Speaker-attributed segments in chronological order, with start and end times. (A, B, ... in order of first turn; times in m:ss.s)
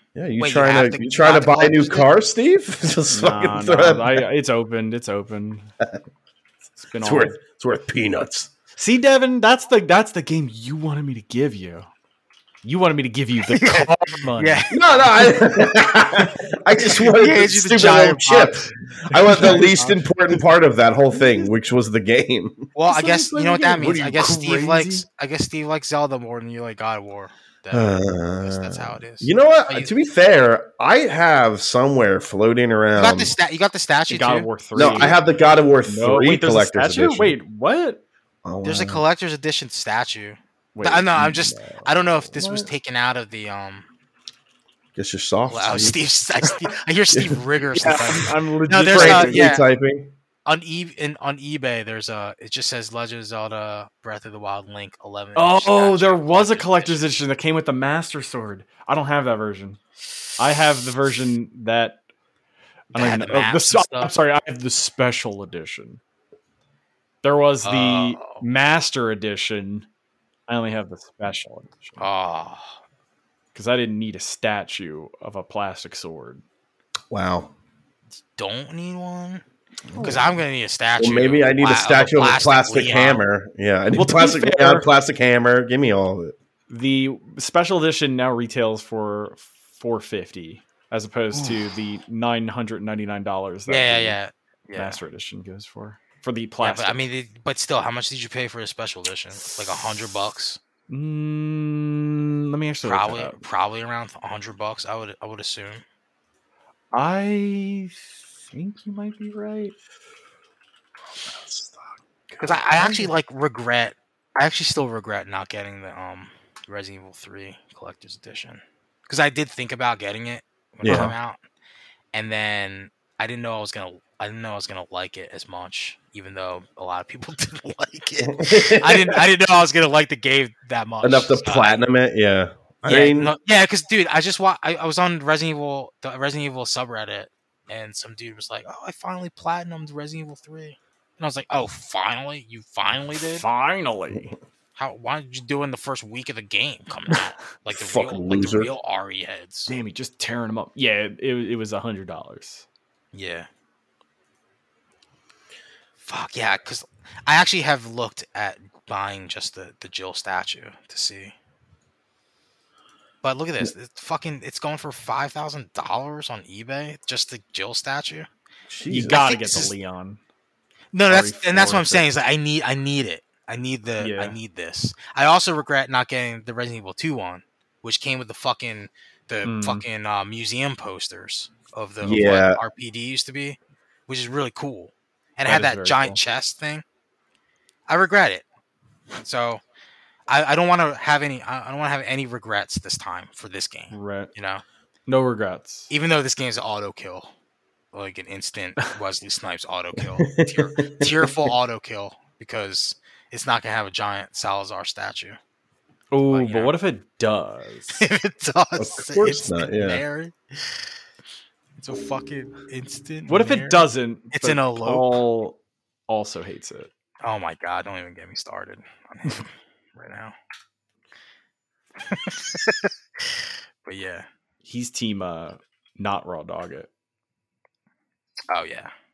0:00.2-0:04.2 A
0:00.4-0:02.1 B
0:03.1-0:05.7 C
0:06.8-0:07.4 C
0:07.0-0:08.5 A
0:08.8-0:11.9 C
0:12.6-0:14.7 C
0:13.5-0:15.0 B
0:14.7-0:24.0 A
0:16.8-0:18.7 B
0:19.1-0:20.0 C
0:19.3-0:19.6 B
0:22.8-0:29.9 B
0:23.7-0:25.0 C
0:27.7-0:33.3 A
0:32.9-0:35.2 B
0:34.1-0:35.2 C
0:34.8-0:37.4 A
0:35.9-0:38.0 C
0:38.4-0:39.0 A
0:38.6-0:43.9 B
0:40.8-0:41.2 C
0:41.2-0:42.7 A
0:45.0-0:46.0 A
0:45.5-0:49.6 B
0:47.8-0:49.5 C
0:48.9-0:50.1 A
0:50.4-0:57.0 B
0:55.4-0:59.8 C
1:00.4-1:02.0 C
1:02.9-1:06.0 C
1:02.9-1:04.1 B
1:07.2-1:09.9 C
1:07.6-1:08.4 B
1:10.5-1:12.1 C
1:12.0-1:12.8 B
1:13.5-1:16.4 C
1:17.1-1:17.5 A
1:18.4-1:19.4 B
1:19.9-1:20.3 C
1:20.0-1:23.2 B
1:21.0-1:26.4 A
1:23.9-1:24.9 C
1:26.7-1:34.2 C
1:31.3-1:31.6 B
1:33.7-1:35.0 B
1:34.8-1:37.0 C
1:36.6-1:40.6 B
1:40.9-1:43.4 C
1:42.8-1:45.8 B
1:46.9-1:49.8 C
1:51.2-1:53.1 A
1:52.4-2:01.4 B
2:00.8-2:01.1 A
2:00.9-2:01.1 C
2:02.1-2:11.8 B
2:08.3-2:09.2 A
2:11.0-2:13.3 A
2:12.8-2:23.4 B
2:23.2-2:24.3 C
2:24.8-2:29.7 B
2:27.7-2:28.7 A
2:29.7-2:32.6 C
2:33.1-2:33.5 B
2:36.0-2:41.4 B
2:43.2-2:48.3 B
2:48.7-2:49.3 A
2:48.9-2:50.2 C
2:49.1-2:49.7 B
2:50.9-3:06.8 B
2:51.1-2:52.0 C
2:54.0-2:54.4 C
2:59.4-2:59.8 C
3:02.0-3:02.6 A
3:05.5-3:06.2 C
3:07.9-3:08.4 B
3:09.2-3:09.6 B
3:10.3-3:14.6 B
3:13.9-3:14.3 C
3:15.1-3:15.9 C
3:15.9-3:17.3 B
3:17.9-3:25.4 B
3:20.2-3:21.5 A
3:26.1-3:28.1 C
3:26.3-3:26.7 B
3:28.0-3:30.7 B
3:28.8-3:30.0 A
3:31.8-3:35.2 B
3:33.3-3:36.9 C
3:37.2-3:40.4 B
3:42.1-3:42.9 B
3:43.8-3:44.3 B
3:44.6-3:46.9 C
3:48.5-3:48.9 B